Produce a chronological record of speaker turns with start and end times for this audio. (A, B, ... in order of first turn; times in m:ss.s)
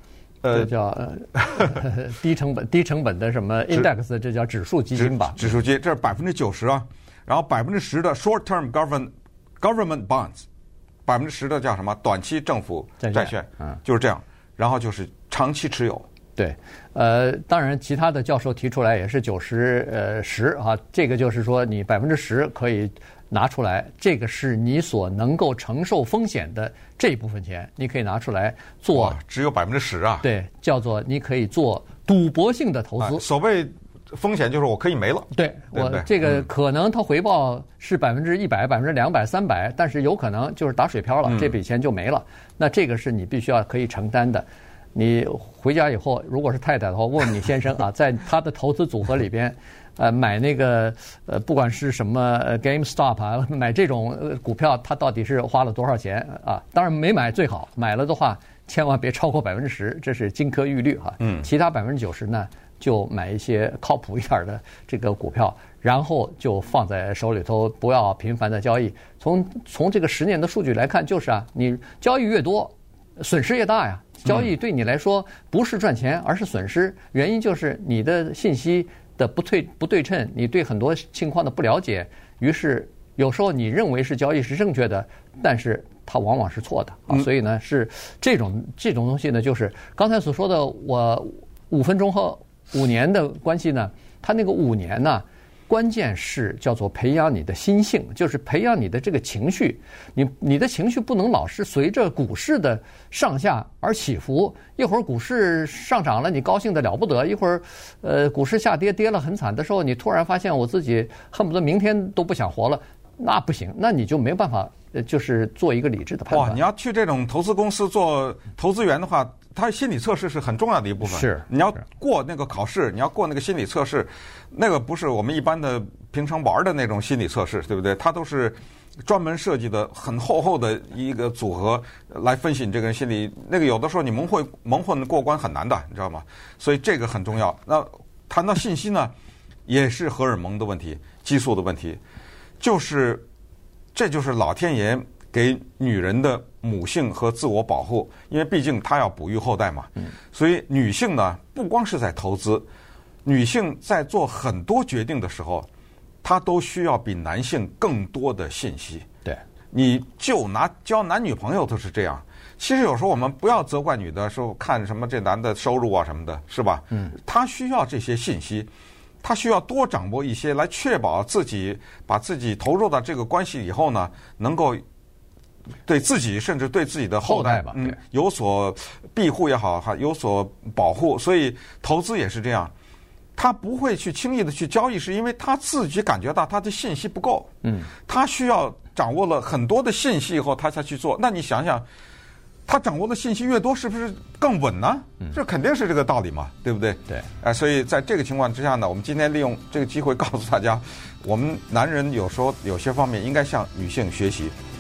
0:00.4-0:00.7 A
0:00.5-0:05.6 B
0:05.0-0:10.5 A
0:11.1-0:16.1 A
0:13.0-0:13.8 B
0:16.4-0:29.2 B
0:28.9-0:30.3 A
0:30.2-0:33.2 B
0:33.0-0:36.4 A
0:35.3-1:56.6 B
1:01.2-1:01.5 A
1:56.3-2:19.1 A
2:01.0-2:01.5 B
2:19.7-2:22.0 A
2:22.6-2:23.2 A
2:24.0-2:32.7 A
2:33.2-2:35.7 A
2:36.2-2:39.1 A
2:39.7-2:48.7 A
2:49.2-2:54.8 A
2:55.9-3:02.7 A
2:57.2-2:58.0 B
3:03.4-3:07.5 A
3:07.6-3:07.9 B
3:08.1-3:11.9 A
3:12.7-3:24.6 A